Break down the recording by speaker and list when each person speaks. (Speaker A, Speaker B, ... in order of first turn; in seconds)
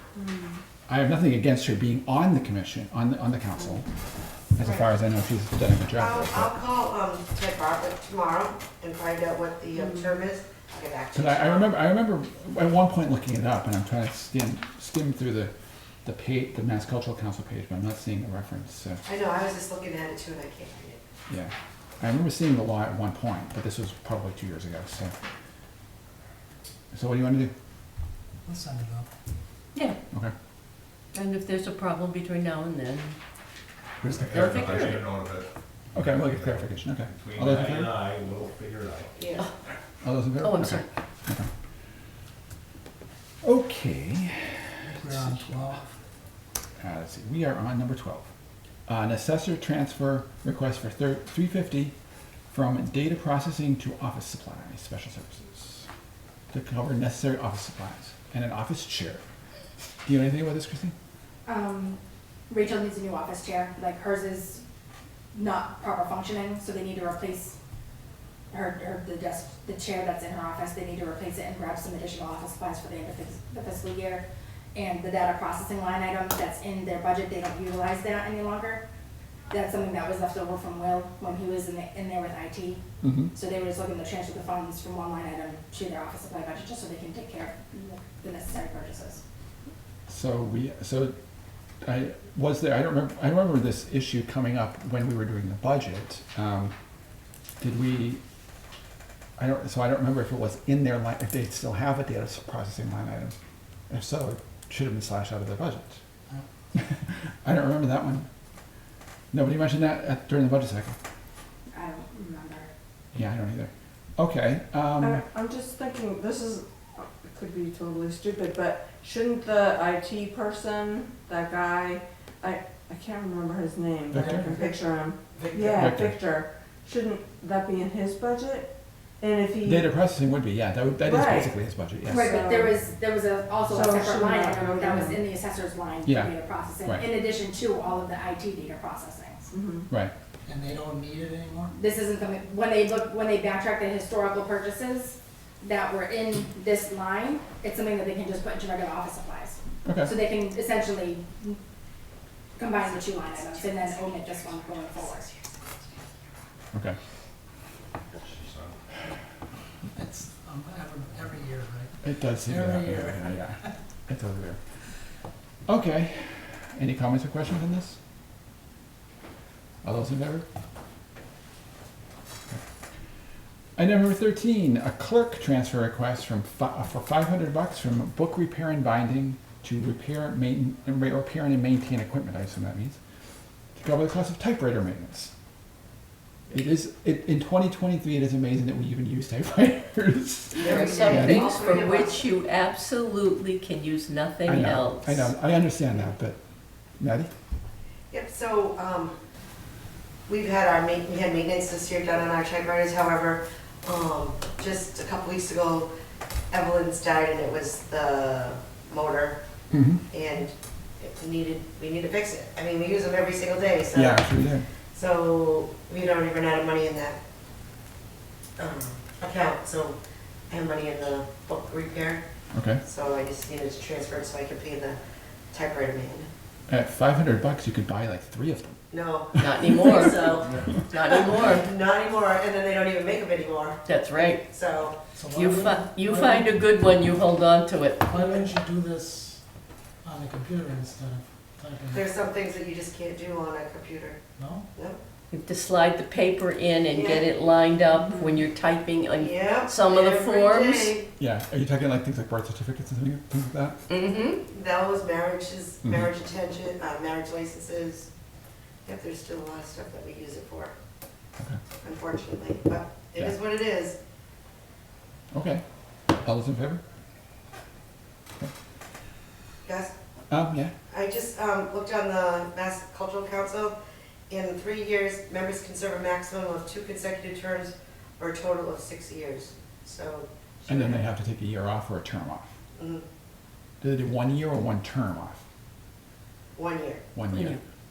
Speaker A: 0.1-0.6, 9.8-10.1, 115.0-129.9, 131.0-131.5, 132.1-132.8, 133.7-135.2, 139.5-139.9
Speaker B: 0.9-3.9, 4.5-6.5, 11.1-15.5, 16.0-19.0, 21.3-25.1, 26.9-27.5, 34.1-34.9, 35.9-38.0, 40.0-41.5, 43.4-44.6, 46.8-48.3, 48.9-51.9, 52.5-55.9, 56.5-59.2, 60.0-60.9, 83.0-83.3, 90.1-91.1, 91.8-96.7, 97.6-98.2, 99.4-103.3, 103.9-106.0, 106.7-108.3, 109.3-111.0, 113.1-115.2, 124.1-124.5, 125.8-126.2, 129.6-132.3, 136.0-137.1, 149.8-150.1, 156.7-157.0, 162.0-164.6, 165.7-168.0, 169.8-170.4, 173.8-183.0, 183.8-185.3, 186.5-191.5, 194.4-196.4, 197.0-197.3, 209.7-210.0, 213.9-214.7, 222.5-222.8, 226.7-228.8, 251.2-253.8, 255.8-256.1, 265.3-265.6, 266.2-266.8, 270.3-270.7, 280.7-282.5, 283.8-285.4, 287.1-287.6
Speaker C: 6.0-11.7, 19.1-21.0, 39.2-39.5, 124.3-124.8, 125.3-125.8, 190.6-192.3, 198.1-199.1, 200.3-205.9, 206.5-209.4, 210.1-214.2, 214.9-217.2, 218.6-219.9, 220.5-222.2, 222.8-225.0, 225.5-226.3, 228.9-230.6, 231.1-235.0, 241.9-244.2, 246.9-247.3, 249.2-251.1, 254.5-258.1, 258.9-260.7, 261.8-264.0, 269.6-269.9, 270.9-273.7, 274.3-281.0, 282.8-283.0, 286.5-287.0
Speaker D: 28.4-29.1, 44.8-45.9, 140.5-141.7, 159.9-161.9, 162.4-163.7, 235.1-236.9, 238.0-239.4, 240.0-242.1, 244.4-244.7
Speaker E: 31.1-33.2, 34.2-35.1, 40.4-40.9, 190.6-195.3, 229.4-231.7, 233.8-234.4, 235.3-238.2, 245.3-251.0, 253.9-254.4, 287.3-287.6
Speaker F: 34.0-39.3, 158.2-158.8
Speaker G: 61.4-64.6, 65.3-67.6, 68.5-78.8, 79.5-82.8, 83.3-89.2, 111.7-112.7, 132.1-139.5, 141.7-151.6, 152.6-155.3